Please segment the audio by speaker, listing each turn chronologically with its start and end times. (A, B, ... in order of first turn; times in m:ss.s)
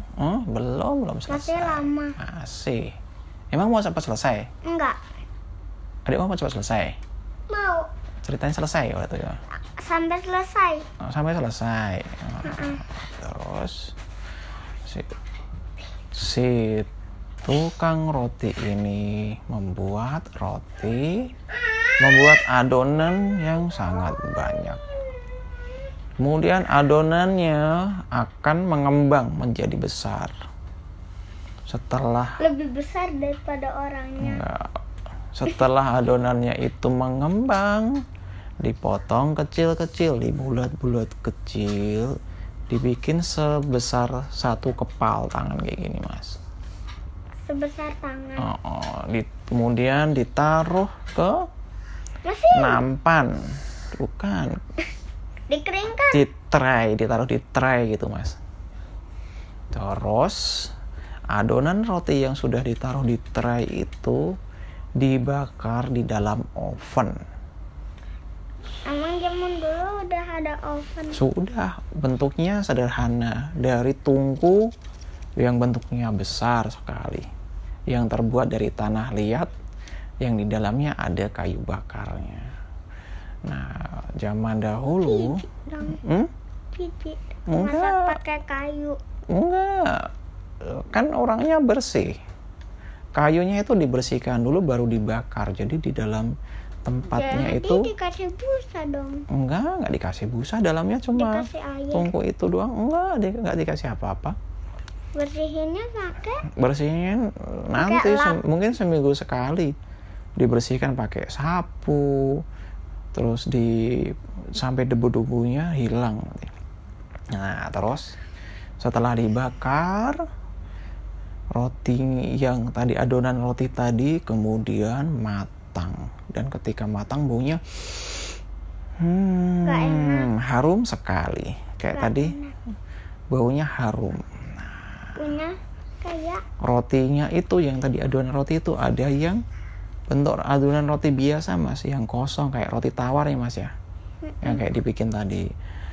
0:00.2-0:02.9 A
0:01.3-0:02.2 B
0:03.5-0:04.5 A
0:04.6-0:05.0 B
0:06.0-0:07.0 A
0:07.5-0:07.9 B
0:08.2-0:09.4 A
0:09.7-0:10.9 B
0:11.0-0:13.9 A
0:12.4-0:12.8 B
0:14.8-0:15.1 A
0:16.1-0:16.9 A
0:17.4-0:21.3 A
0:22.0-0:24.8 A
0:26.2-0:30.3 A
0:31.7-0:32.4 A
0:32.4-0:34.4 B
0:34.2-0:34.8 A
0:35.3-0:38.0 A
0:38.6-0:42.1 A
0:42.7-0:46.4 A
0:47.4-0:48.5 B
0:48.4-0:51.5 A
0:52.2-0:52.8 B
0:52.5-0:54.5 A
0:55.5-0:56.2 B
0:56.1-0:58.4 A
0:59.7-1:00.7 A
1:01.3-1:04.2 A
1:05.0-1:07.2 A
1:08.9-1:11.2 B
1:11.1-1:14.7 A
1:15.4-1:17.3 A
1:17.9-1:19.5 A
1:20.2-1:22.5 A
1:23.4-1:26.3 A
1:25.0-1:26.0 B
1:26.7-1:29.0 B
1:27.5-1:28.1 A
1:29.3-1:30.1 A
1:30.6-1:32.2 A
1:33.2-1:36.3 A
1:36.8-1:37.9 A
1:37.1-1:39.2 B
1:39.3-1:44.3 A
1:41.2-1:42.1 B
1:45.1-1:46.4 B
1:46.6-1:49.7 A
1:47.8-1:48.4 B
1:50.4-1:52.4 A
1:53.1-1:56.5 A
1:57.3-1:58.2 A
1:58.8-2:00.2 A
2:01.5-2:08.3 A
2:09.0-2:12.4 A
2:09.6-2:10.3 B
2:11.9-2:12.5 B
2:13.3-2:14.9 A
2:15.2-2:16.4 B
2:16.6-2:19.4 A
2:20.1-2:23.7 A
2:24.2-2:24.6 B
2:24.4-2:25.5 A